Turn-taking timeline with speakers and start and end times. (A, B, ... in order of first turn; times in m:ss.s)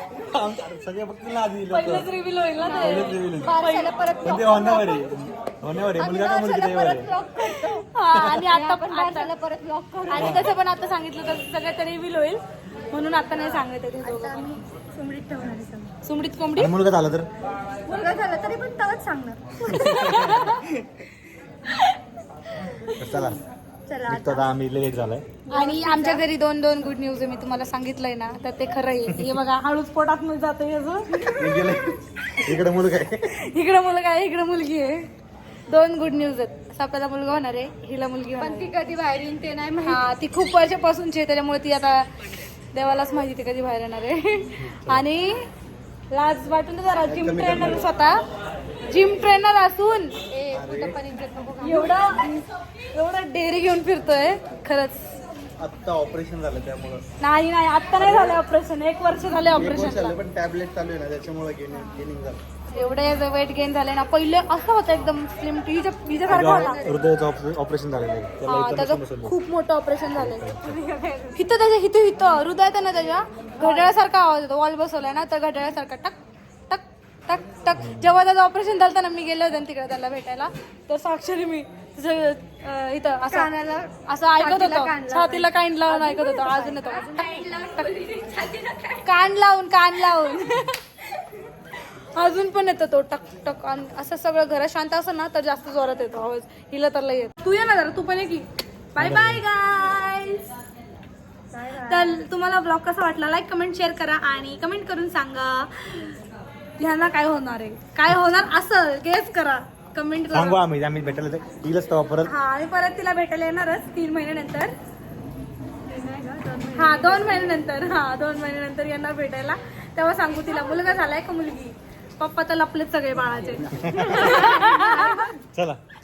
0:00.1-0:02.1 A
0:01.7-0:04.2 B
0:02.6-0:05.1 C
0:02.8-0:03.6 A
0:04.2-0:07.1 A
0:06.0-0:10.5 C
0:07.6-0:09.3 B
0:10.1-0:14.6 B
0:10.2-0:10.5 A
0:14.0-0:16.0 C
0:16.0-0:16.7 B
0:16.6-0:17.3 A
0:17.9-0:19.6 C
0:19.6-0:20.7 B
0:23.0-0:23.4 A
0:23.9-0:24.5 C
0:24.1-0:25.2 A
0:25.5-0:26.2 C
0:25.5-0:31.3 B
0:31.4-0:32.0 D
0:32.4-0:33.3 A
0:33.3-0:35.0 B
0:35.7-0:38.7 B
0:38.4-0:40.0 C
0:39.8-0:42.1 B
0:42.7-0:45.4 B
0:44.6-0:44.9 D
0:46.1-0:48.2 B
0:47.0-0:47.9 D
0:48.9-0:50.2 B
0:50.3-0:52.4 C
0:50.5-0:51.0 D
0:51.6-0:52.3 B
0:52.9-0:55.2 B
0:55.6-0:57.0 D
0:57.2-1:00.2 B
0:58.0-0:58.4 D
0:59.6-1:02.4 D
1:02.7-1:06.9 B
1:06.3-1:09.4 A
1:06.3-1:07.0 C
1:08.5-1:10.5 B
1:10.2-1:10.8 A
1:10.6-1:11.4 C
1:11.3-1:16.2 B
1:13.6-1:13.8 C
1:16.7-1:23.5 B
1:17.8-1:18.1 A
1:23.3-1:29.1 C
1:24.1-1:27.9 B
1:29.0-1:30.8 B
1:32.1-1:40.4 B
1:39.0-1:39.4 A
1:41.5-1:42.2 C
1:41.8-1:46.2 B
1:46.8-1:50.6 B
1:50.3-1:52.3 A
1:52.2-1:54.8 B
1:55.9-1:57.6 C
1:56.8-2:05.3 B
2:03.8-2:04.4 A
2:03.9-2:05.3 C
2:05.5-2:05.8 A